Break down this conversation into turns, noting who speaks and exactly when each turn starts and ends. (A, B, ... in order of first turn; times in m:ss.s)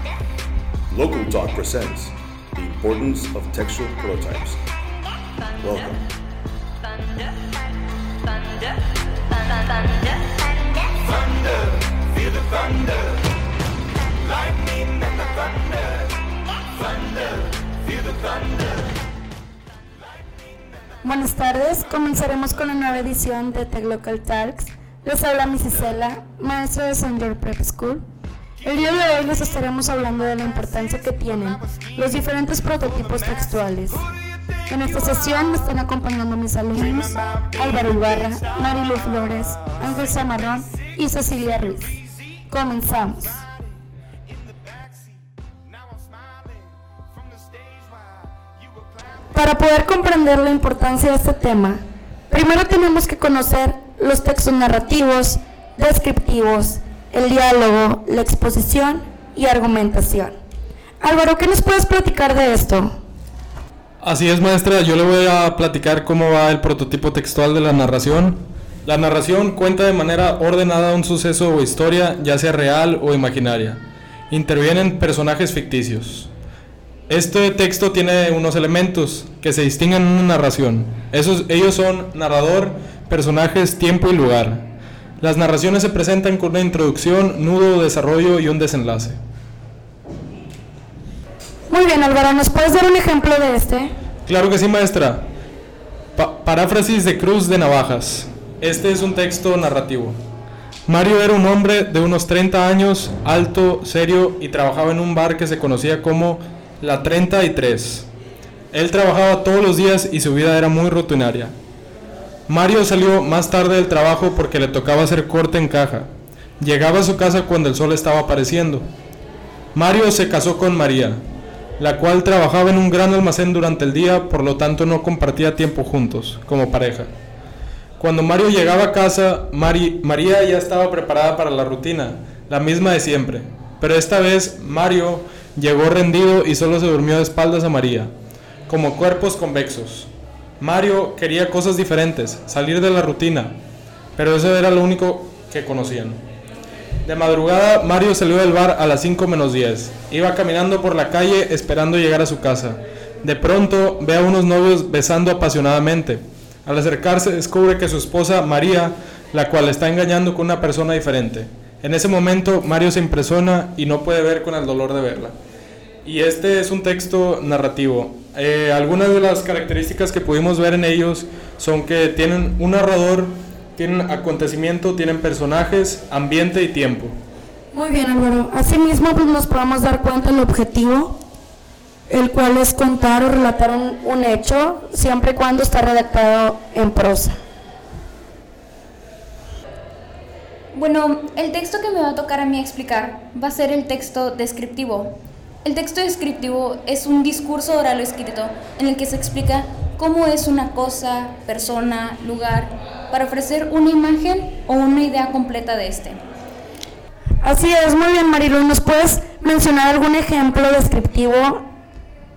0:00.9-0:04.6 A
0:05.6-0:06.0 A
0:11.0-0:13.1 B
0:14.2-0:16.1 B
0:16.8-0:18.8 B
0:21.0-0:28.0 C
0:28.6-0:34.0 C
0:28.7-0:29.7 B
0:30.8-0:35.7 B
0:34.7-0:42.0 C
0:36.8-0:42.1 B
0:42.5-0:43.4 C
0:43.3-0:49.2 B
0:49.3-1:00.3 C
1:01.0-1:02.9 C
1:04.0-1:16.3 D
1:17.1-1:24.6 D
1:25.2-1:29.2 D
1:31.7-1:33.9 C
1:34.2-1:35.2 D
1:36.2-1:40.2 D
1:40.9-1:48.1 D
1:48.7-1:51.5 D
1:52.5-1:56.1 D
1:56.6-1:58.8 D
1:59.7-2:01.2 D
2:01.8-2:07.1 D
2:08.0-2:18.1 D
2:18.7-2:23.5 D
2:24.2-2:26.2 D
2:27.0-2:45.3 D
2:46.0-2:57.1 D
2:57.7-3:01.2 C
3:02.1-3:07.4 C
3:10.7-3:26.2 E
3:27.4-3:31.6 C